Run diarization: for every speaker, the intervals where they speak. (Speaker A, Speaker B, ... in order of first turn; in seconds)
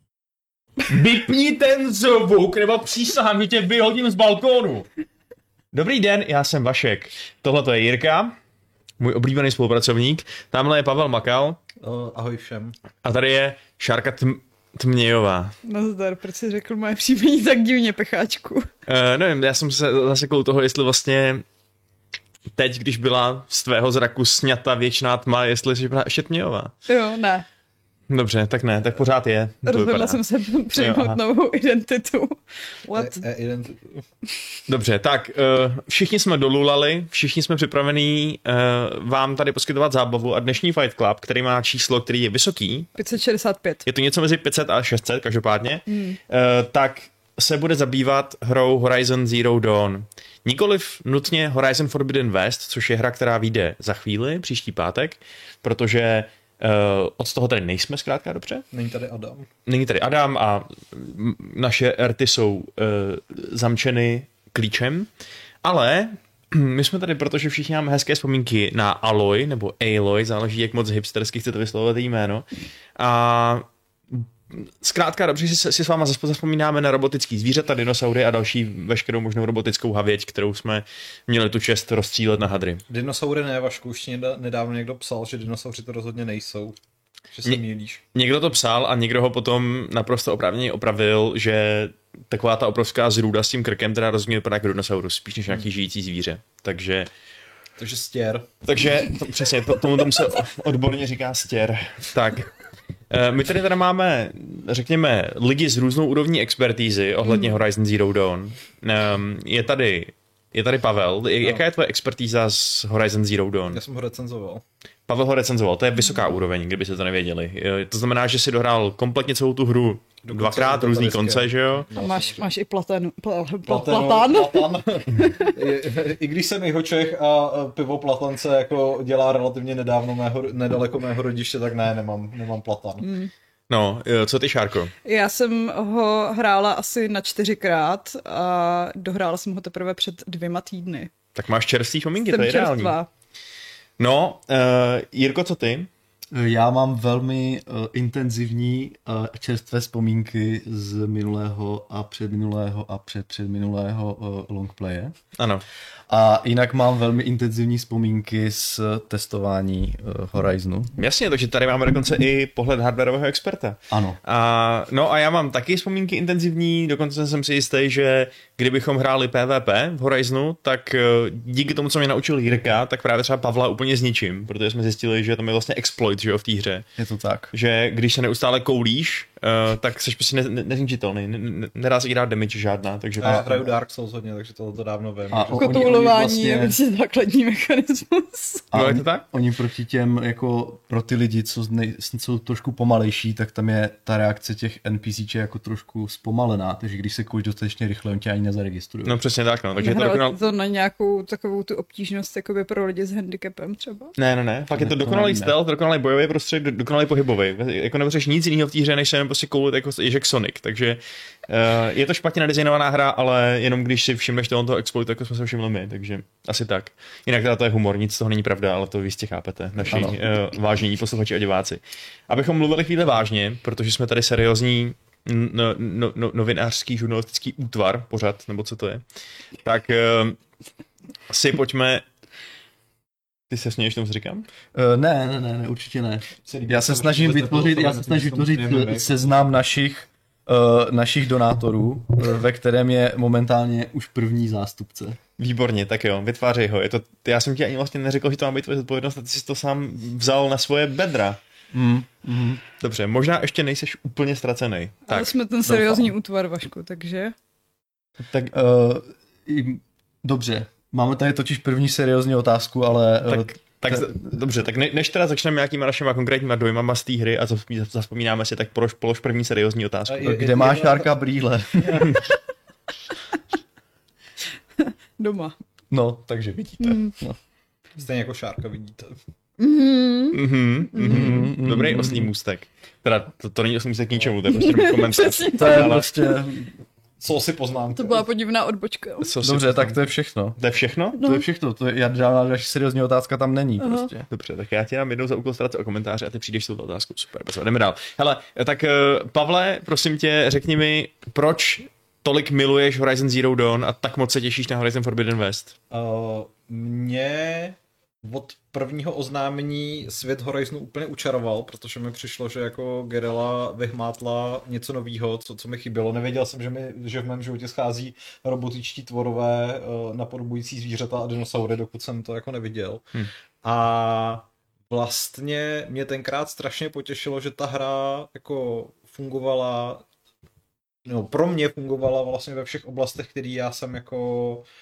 Speaker A: 0.9-4.9, 5.7-8.3, 9.0-11.6, 13.0-15.6, 18.9-21.4, 22.6-26.7, 28.1-30.2, 30.7-31.2, 34.7-42.9, 43.9-58.6, 59.6-65.1, 65.6-72.4, 73.0-82.8, 88.2-97.1, 98.6-102.5, 103.1-113.8, 115.1-121.9, 133.7-134.9, 141.3-142.9, 144.0-145.9, 155.4-155.6, 161.0-176.9, 177.5-183.5, 188.7-189.2, 199.1-200.4, 204.2-229.0, 229.6-230.4, 231.3-232.0, 233.5-234.5, 245.4-251.4, 252.8-255.4, 258.3-258.5, 263.2-270.3, 280.3-286.1, 289.2-291.2, 294.3-305.8
Speaker B: 11.8-12.8, 32.9-34.0, 58.7-59.5, 82.9-86.8, 87.3-88.0, 97.8-98.5, 113.7-114.6, 120.2-122.5, 123.7-133.1, 183.2-186.0, 236.4-239.2, 270.1-271.2, 271.8-272.2, 278.0-279.2, 287.2-288.2, 305.9-323.1, 323.6-330.0, 331.1-334.7
Speaker C: 15.6-18.7, 26.9-27.4, 29.7-33.2, 43.0-43.9, 45.9-46.2, 121.9-125.6, 133.0-133.3, 135.0-141.1, 142.2-143.1, 185.5-188.6, 199.8-204.2, 255.1-257.3, 274.8-275.6, 276.8-277.1, 279.6-280.4, 280.9-281.4, 284.5-286.1, 287.9-289.3, 291.1-291.4, 293.8-294.1
Speaker D: 146.3-155.1, 156.1-160.9, 163.9-164.2, 177.0-177.5, 183.2-183.7, 185.3-186.8, 188.7-199.2, 204.8-205.5, 219.8-220.2, 234.7-245.2, 251.7-252.6, 255.7-256.1, 258.5-264.1, 270.2-272.2, 275.9-277.4, 281.0-282.3, 285.6-286.8, 289.4-290.6, 291.2-294.3